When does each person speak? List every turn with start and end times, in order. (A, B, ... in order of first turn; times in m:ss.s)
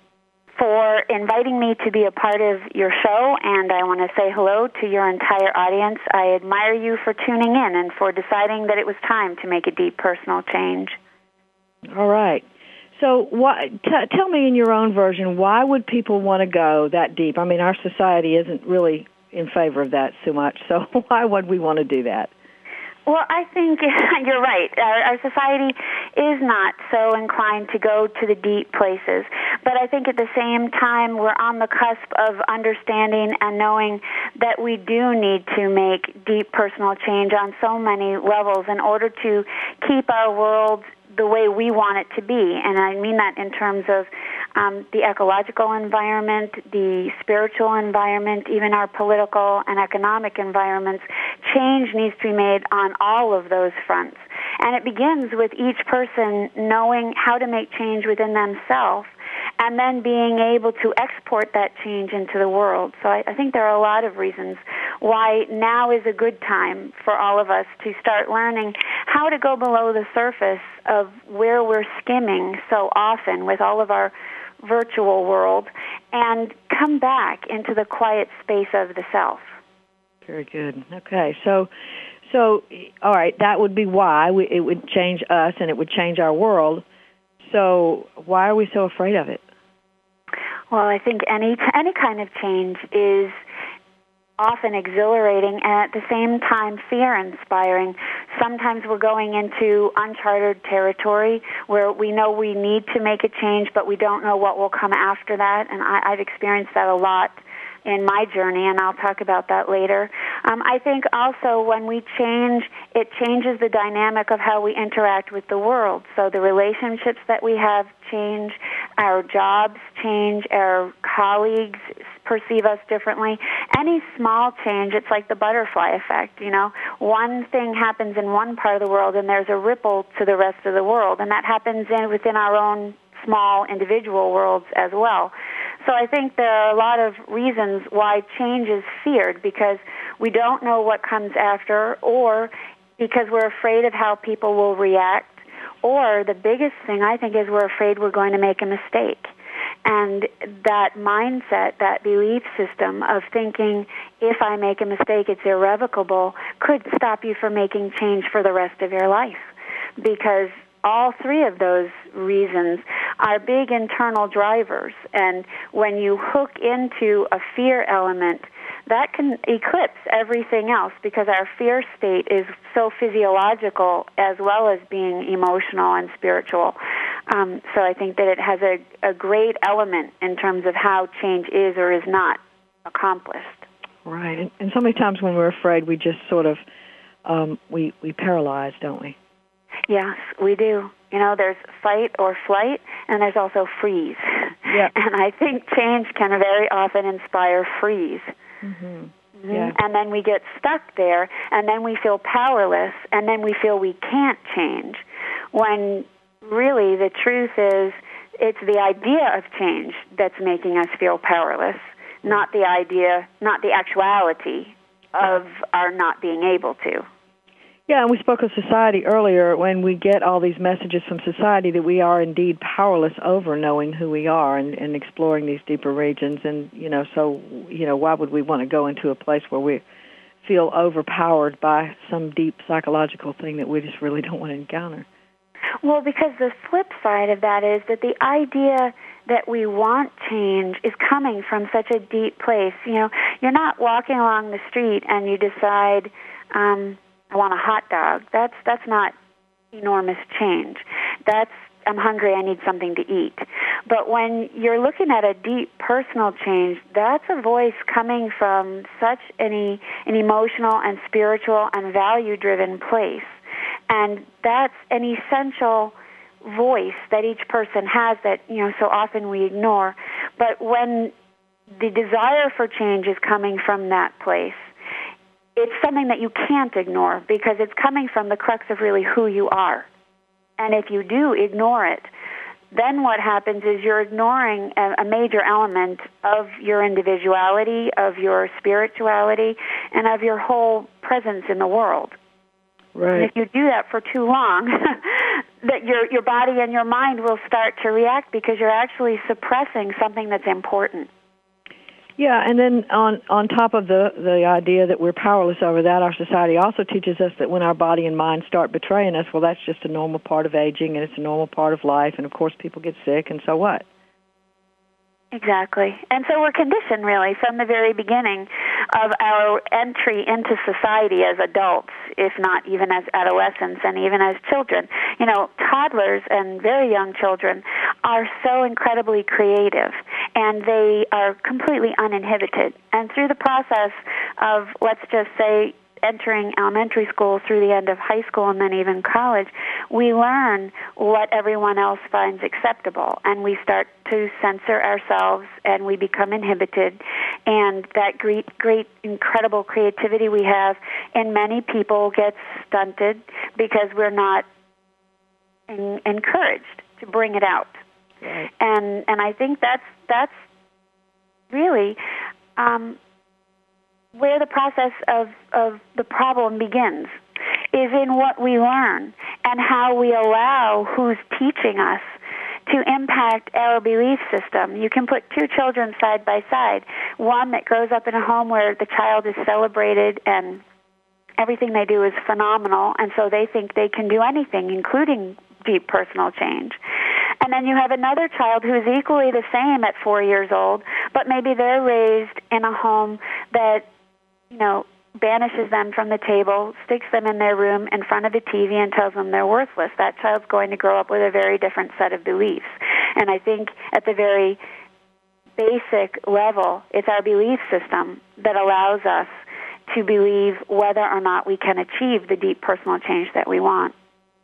0:00.6-0:11.0 A
0:11.9-0:22.3 B
0:23.1-1:19.6 A
1:20.2-1:21.7 B
1:22.2-1:26.8 B
1:27.4-1:29.4 B
1:30.7-1:33.4 A
1:34.4-2:29.3 A
2:29.8-2:56.8 A
2:57.3-3:03.6 A
3:04.0-3:06.6 B
3:07.2-3:09.2 B
3:09.9-3:18.3 A
3:14.7-3:14.9 B
3:18.6-3:19.8 B
3:19.4-3:25.0 A
3:25.5-3:37.1 A
3:37.9-3:49.8 B
3:50.4-3:55.1 B
3:55.8-4:09.1 A
4:09.7-4:23.4 A
4:23.9-4:31.1 A
4:31.7-4:34.7 A
4:35.6-4:39.9 A
4:40.6-4:42.1 A
4:42.7-4:52.2 A
4:53.0-4:53.3 B
4:53.2-5:01.1 A
5:02.2-5:13.8 B
5:15.3-5:54.4 A
5:55.7-5:57.8 A
5:58.2-5:58.5 B
5:58.6-6:00.4 A
6:01.5-6:02.0 A
6:02.6-6:03.0 A
6:04.2-6:07.2 A
6:07.7-6:12.1 A
6:12.7-6:20.6 A
6:21.4-6:26.8 A
6:27.4-6:33.9 A
6:34.5-6:44.6 A
6:45.6-6:49.3 A
6:49.9-6:53.9 A